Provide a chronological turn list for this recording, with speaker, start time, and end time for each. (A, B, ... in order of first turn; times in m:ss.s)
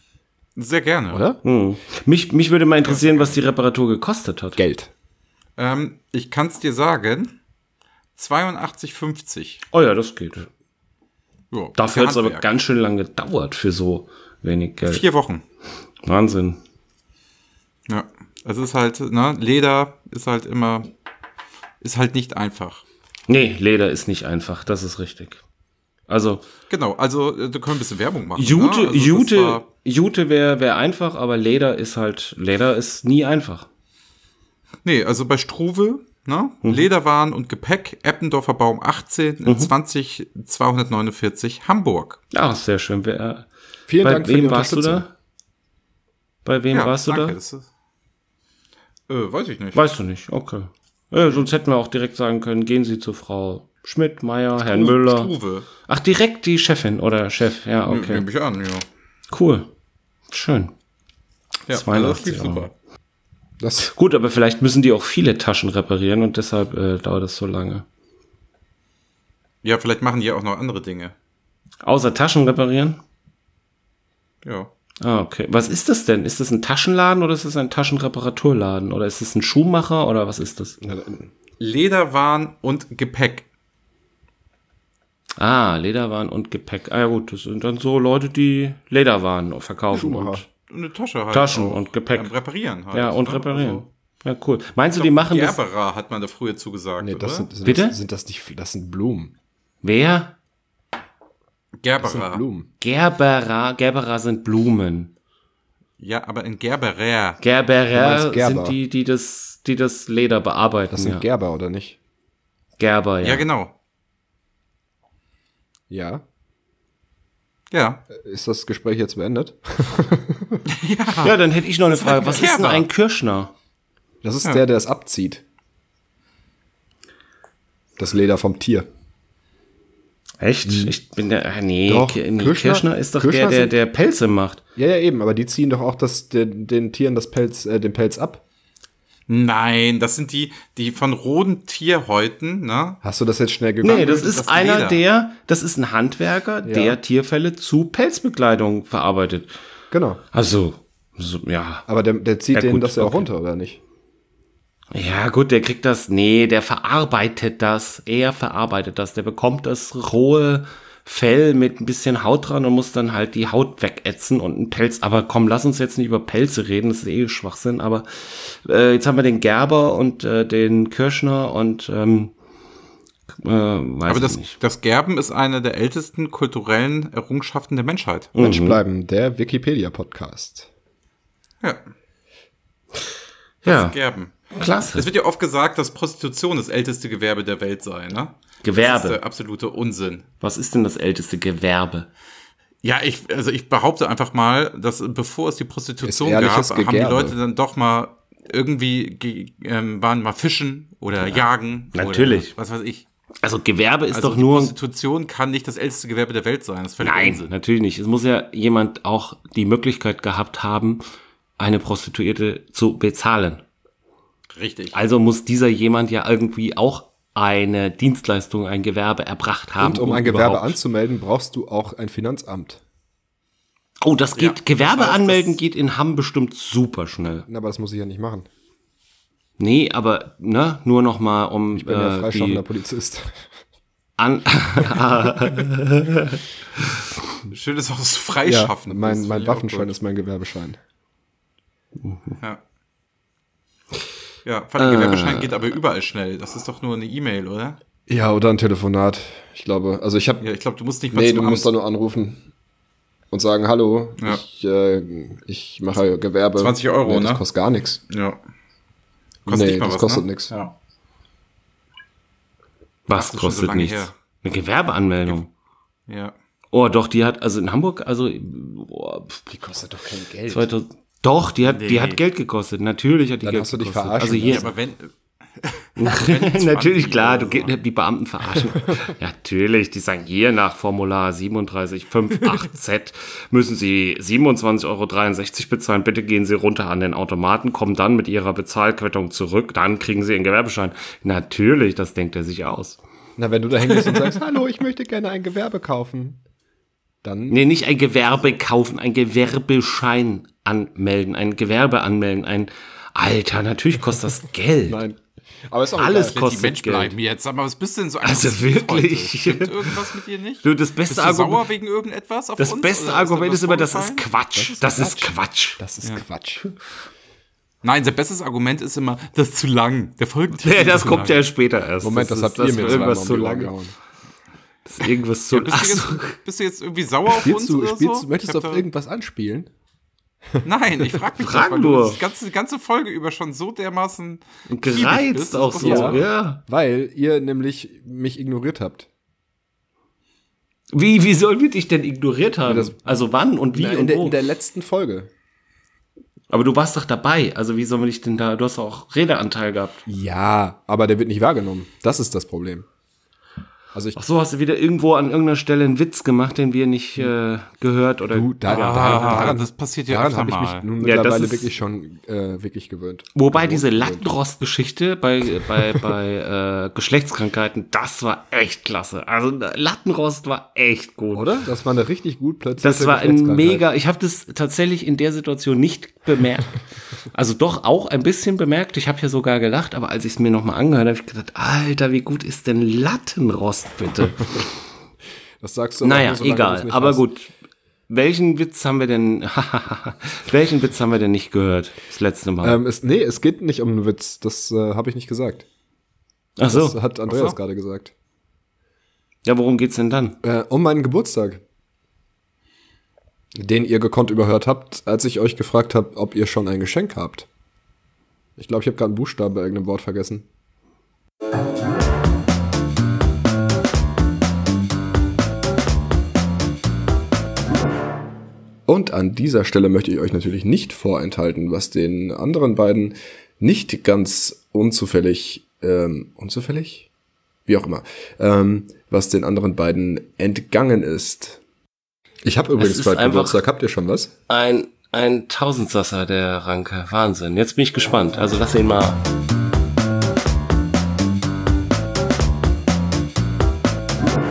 0:00.6-0:01.2 A
0:01.1-0:01.4 B
0:01.4-0:04.6 C
0:02.8-0:03.4 A
0:04.6-0:04.9 B
0:05.6-0:07.3 A
0:08.2-0:09.6 A
0:09.7-0:10.5 C
0:11.5-0:12.4 A
0:11.8-0:15.0 C
0:14.9-0:15.4 A
0:16.0-0:16.6 C
0:17.9-0:20.9 A
0:21.8-0:22.8 A
0:23.3-0:25.4 C
0:26.1-0:26.4 C
0:26.7-0:29.7 A
0:28.4-0:33.7 C
0:34.8-0:42.2 A
0:39.5-0:39.7 C
0:42.3-0:43.5 C
0:43.9-0:45.0 B
0:44.0-0:45.1 C
0:46.4-0:47.4 C
0:46.7-0:47.6 A
0:49.1-0:49.9 A
0:49.8-0:55.3 C
0:54.6-0:55.7 A
0:55.9-0:58.2 C
0:57.9-0:58.9 A
0:59.3-0:59.7 C
1:00.3-1:00.7 C
1:01.7-1:02.7 A
1:01.7-1:02.7 C
1:03.6-1:03.9 B
1:03.8-1:07.8 C
1:09.6-1:11.1 A
1:11.8-1:13.0 C
1:14.4-1:14.7 A
1:15.0-1:20.8 C
1:20.8-1:21.3 B
1:21.6-1:23.4 A
1:25.4-1:30.4 C
1:29.9-1:30.4 B
1:30.7-1:33.9 A
1:31.3-1:32.3 C
1:32.9-1:35.6 C
1:35.0-1:37.5 A
1:37.0-1:39.3 B
1:37.6-1:38.0 C
1:39.8-1:40.3 C
1:41.8-1:42.4 A
1:42.0-1:42.7 B
1:42.8-1:45.1 C
1:46.0-1:47.4 A
1:47.4-1:51.2 C
1:47.9-1:48.8 B
1:50.9-1:52.0 B
1:52.8-1:53.5 C
1:53.2-1:53.7 A
1:55.9-1:56.2 B
1:57.7-1:58.0 A
1:58.1-2:00.6 B
2:00.7-2:02.9 A
2:01.2-2:03.5 C
2:04.2-2:05.4 B
2:08.0-2:08.9 B
2:10.4-2:14.6 C
2:10.7-2:11.0 B
2:11.9-2:13.8 B
2:14.8-2:18.4 B
2:19.3-2:23.0 A
2:23.0-2:24.3 B
2:23.8-2:29.5 C
2:23.8-2:25.0 A
2:26.6-2:27.0 B
2:29.9-2:30.2 B
2:30.3-2:31.8 C
2:31.9-2:33.8 B
2:32.5-2:33.3 C
2:34.9-2:52.3 C
2:53.4-2:54.6 C
2:54.1-2:58.3 A
2:58.4-2:58.8 C
2:58.4-3:00.7 B
3:03.6-3:04.0 C
3:03.6-3:04.4 A
3:04.6-3:05.1 C
3:04.9-3:10.3 A
3:08.6-3:09.2 C
3:10.4-3:12.1 C
3:12.8-3:23.0 A
3:16.0-3:17.4 B
3:22.0-3:22.5 C
3:23.4-3:24.7 C
3:24.1-3:27.5 A
3:27.0-3:31.0 C
3:31.6-3:33.6 C
3:34.5-3:35.0 A
3:34.9-3:40.8 C
3:39.8-3:42.8 B
3:44.0-3:47.5 C
3:44.4-3:45.6 A
3:47.5-3:48.5 B
3:49.6-3:52.6 C
3:51.7-3:53.5 B
3:54.2-3:56.4 C
3:57.5-3:59.9 A
3:58.4-4:00.8 B
4:02.0-4:02.3 C
4:04.4-4:07.8 A
4:04.8-4:05.5 C
4:08.1-4:10.4 B
4:10.4-4:11.7 A
4:11.1-4:12.4 B
4:13.3-4:18.0 B
4:16.6-4:17.4 A
4:18.1-4:18.4 A
4:19.5-4:20.5 B
4:19.5-4:20.7 A
4:23.1-4:25.5 C
4:23.1-4:24.1 A
4:26.1-4:26.3 A
4:26.7-4:29.5 C
4:29.5-4:30.7 B
4:30.5-4:34.7 C
4:31.6-4:32.2 A
4:33.4-4:34.7 B
4:34.4-4:37.7 A
4:36.0-4:53.0 C
4:53.4-4:56.4 B
4:57.2-4:57.6 B
4:57.5-5:05.0 C
5:04.9-5:06.4 B
5:06.0-5:07.1 C
5:06.2-5:14.2 A
5:08.2-5:10.0 C
5:10.6-5:11.7 C
5:12.6-5:15.8 C
5:14.6-5:16.6 B
5:17.8-5:21.4 A
5:20.6-5:23.7 C
5:22.0-5:23.9 B
5:24.9-5:26.3 C
5:25.5-5:28.8 A
5:27.3-5:29.7 B
5:30.6-5:36.3 A
5:31.4-5:32.2 C
5:34.7-5:36.6 C
5:35.8-5:39.1 B
5:40.9-5:44.4 C
5:42.6-5:43.0 B
5:43.7-5:45.3 B
5:46.5-5:50.0 C
5:50.1-5:52.9 B
5:54.2-5:59.6 C
5:58.3-6:04.3 B
5:58.7-6:00.9 A
6:01.0-6:01.7 C
6:03.4-6:11.5 C
6:11.3-6:13.9 B
6:12.8-6:16.8 C
6:17.3-6:24.7 C
6:25.6-6:27.2 B
6:26.0-6:27.5 C
6:28.1-6:32.8 C
6:32.6-6:35.6 B
6:36.6-6:37.0 C
6:36.7-6:38.1 B
6:39.4-6:40.4 C
6:40.4-6:41.6 B
6:43.6-6:47.5 B
6:48.6-6:50.5 B
6:58.9-7:07.1 B
7:07.7-7:11.6 B
7:12.4-7:14.3 B
7:12.8-7:13.6 C
7:14.5-7:19.2 C